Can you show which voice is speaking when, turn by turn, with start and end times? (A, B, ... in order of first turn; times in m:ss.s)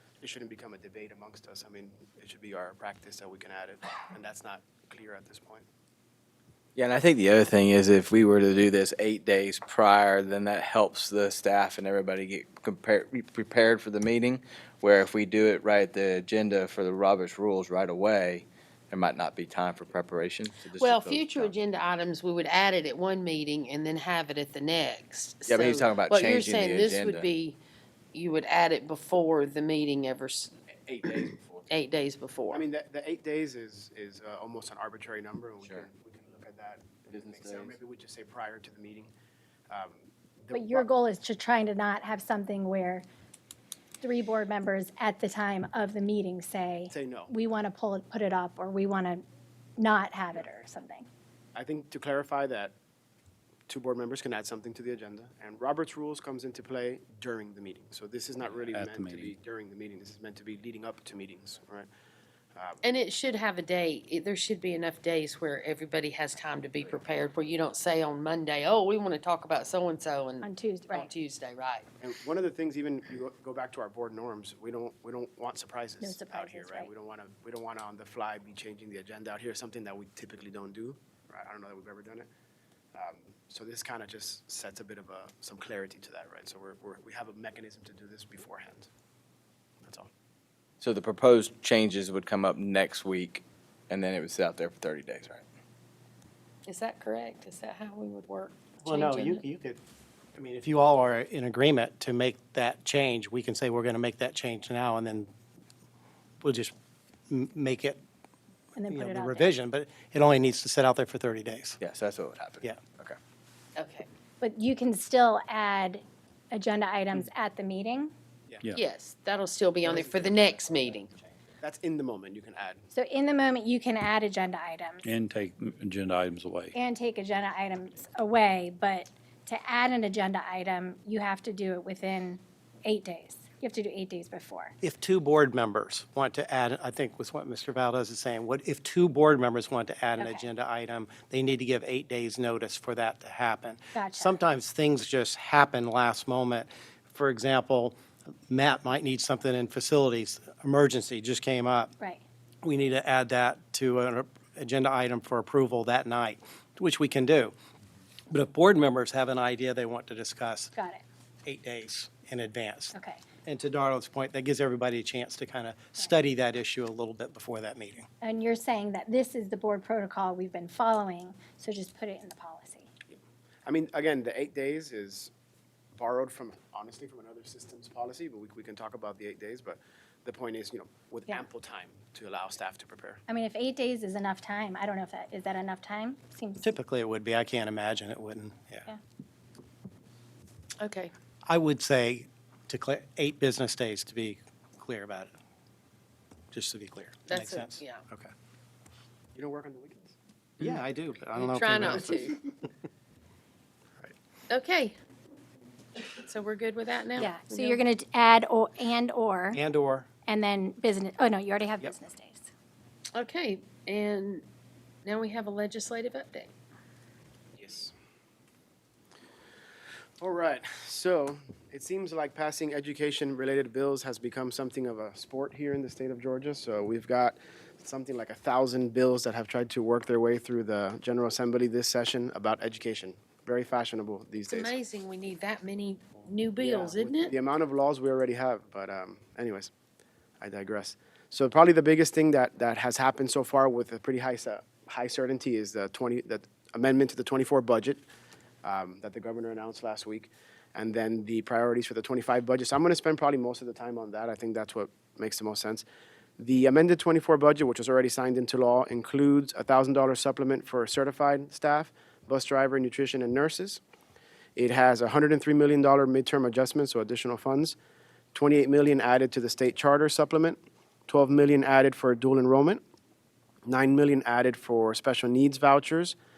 0:00.2-0:05.6 A
0:06.8-0:21.5 B
0:20.8-0:27.6 C
0:25.5-0:27.3 B
0:28.1-0:30.5 C
0:31.0-0:31.6 B
0:31.0-0:32.6 C
0:32.5-0:39.1 A
0:37.1-0:37.7 B
0:39.7-0:40.9 A
0:40.5-0:43.0 D
0:44.0-0:49.2 D
0:46.9-0:47.3 A
0:49.8-0:51.1 D
0:51.5-0:52.7 A
0:53.7-1:01.9 A
0:58.7-0:59.3 E
1:02.5-1:02.8 A
1:02.8-1:11.9 C
1:10.4-1:11.1 D
1:12.0-1:22.3 A
1:16.0-1:16.9 D
1:22.9-1:28.9 A
1:29.8-1:30.1 A
1:30.8-1:33.4 B
1:33.9-1:35.4 B
1:36.7-1:39.4 C
1:38.8-1:39.8 F
1:40.4-1:45.3 F
1:46.4-1:46.7 F
1:47.3-1:48.0 F
1:48.8-1:49.5 D
1:48.8-1:51.8 F
1:51.8-1:53.1 B
1:53.8-1:54.1 C
1:54.4-1:58.1 D
1:58.7-2:01.1 C
1:59.8-2:02.9 A
2:02.9-2:05.1 D
2:05.0-2:06.7 E
2:06.7-2:14.7 D
2:14.8-2:28.0 F
2:23.9-2:24.4 D
2:28.5-2:31.9 F
2:32.6-2:37.5 F
2:38.3-2:40.8 F
2:40.8-2:41.0 D
2:41.4-2:48.1 F
2:42.9-2:43.2 D
2:48.2-2:52.9 D
2:53.6-2:55.3 A
2:55.9-3:03.2 A
3:03.3-3:06.7 D
3:06.6-3:08.9 F
3:10.8-3:11.1 C
3:11.4-3:15.3 F
3:16.5-3:18.3 F
3:17.3-3:18.0 C
3:19.3-3:20.2 A
3:20.6-3:22.3 F
3:21.4-3:22.4 C
3:24.5-3:25.0 C
3:26.0-3:27.8 C
3:27.2-3:29.6 D
3:29.5-3:30.1 F
3:30.2-3:32.5 D
3:33.1-3:34.4 C
3:35.0-3:36.5 C
3:37.6-3:37.9 A
3:40.2-3:54.7 A
3:54.5-3:57.3 C
3:56.6-3:59.7 A
4:00.4-4:08.0 A
4:08.6-4:15.8 A
4:16.4-4:23.8 A
4:24.6-4:27.8 A
4:28.3-4:32.8 A
4:33.7-4:36.2 A